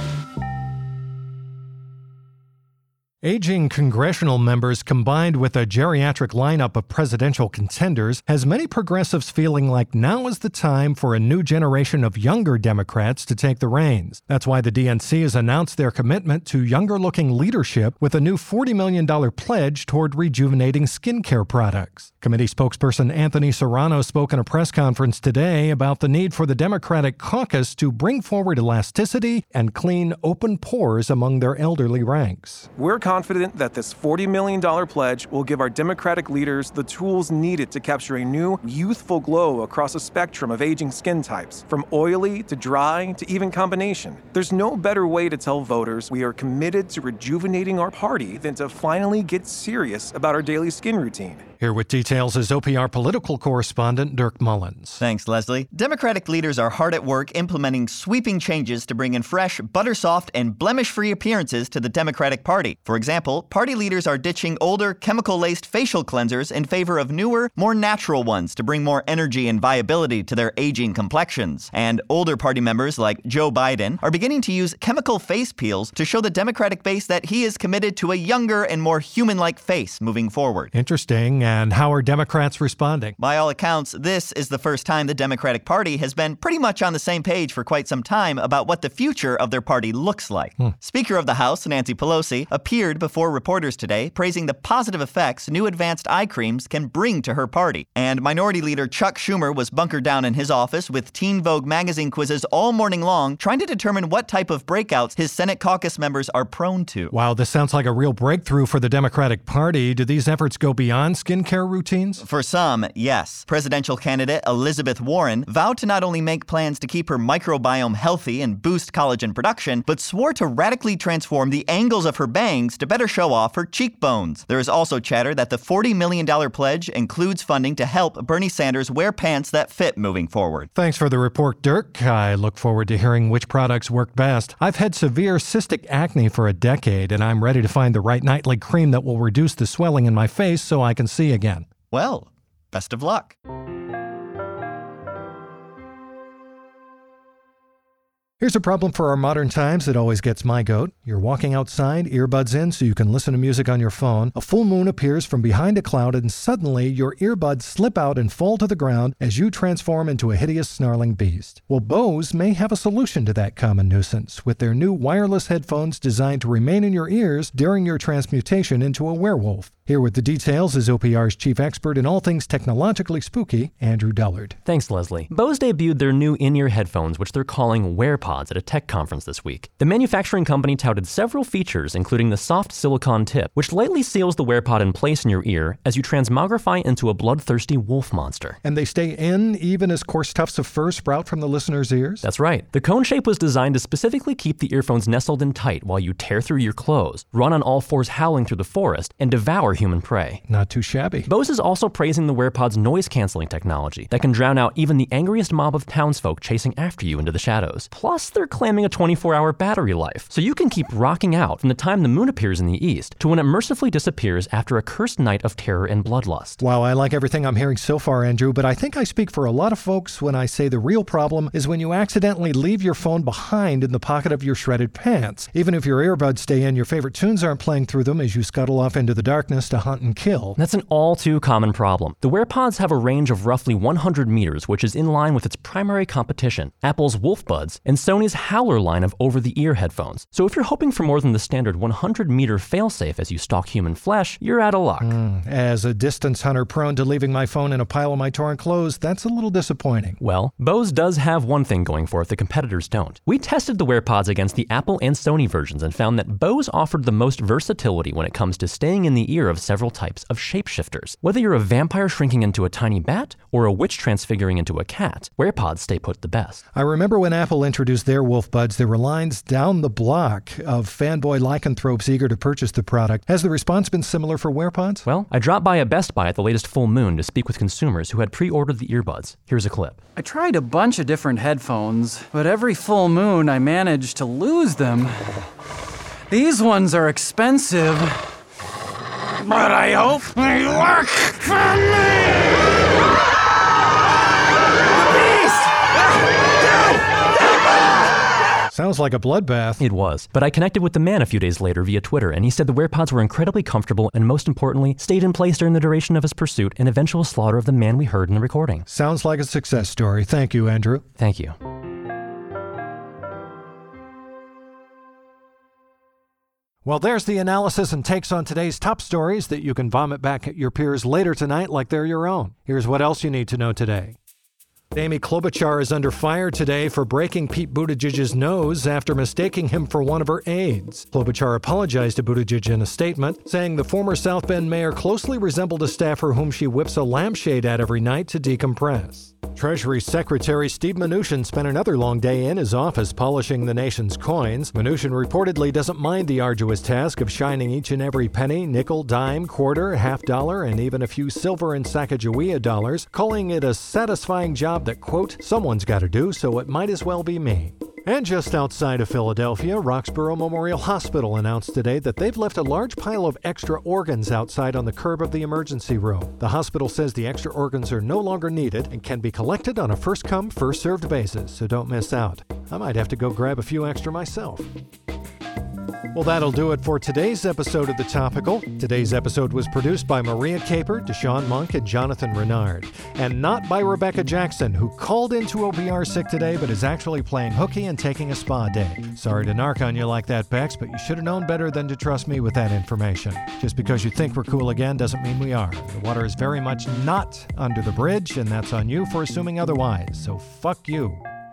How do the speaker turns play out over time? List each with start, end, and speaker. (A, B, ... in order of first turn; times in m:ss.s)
0:03.2-0:32.7 A
0:32.8-0:51.4 B
0:51.6-0:55.0 A
0:55.0-1:20.7 C
1:20.7-1:23.2 A
1:23.2-1:47.1 C
1:47.1-1:52.2 A
1:52.2-2:10.7 C
2:10.8-2:21.7 A
2:21.9-2:23.4 C
2:28.4-2:54.6 A
2:54.7-3:08.6 D
3:08.6-3:12.2 A
3:12.2-3:20.4 D
3:20.5-3:21.3 A
3:21.3-3:36.6 D
3:36.6-3:50.6 A
3:50.6-4:05.2 D
4:05.0-4:10.2 A
4:10.2-4:26.6 D
4:26.8-4:35.1 A
4:35.1-4:40.0 D
4:40.2-4:45.5 E
4:46.3-4:48.3 E
4:49.4-4:52.5 E
4:55.0-4:55.7 E
4:58.7-4:59.8 A
4:59.8-5:08.8 D
5:08.9-5:11.0 A
5:11.2-5:11.6 D
5:16.8-5:24.2 A
5:24.9-6:14.7 A
6:16.1-6:41.2 A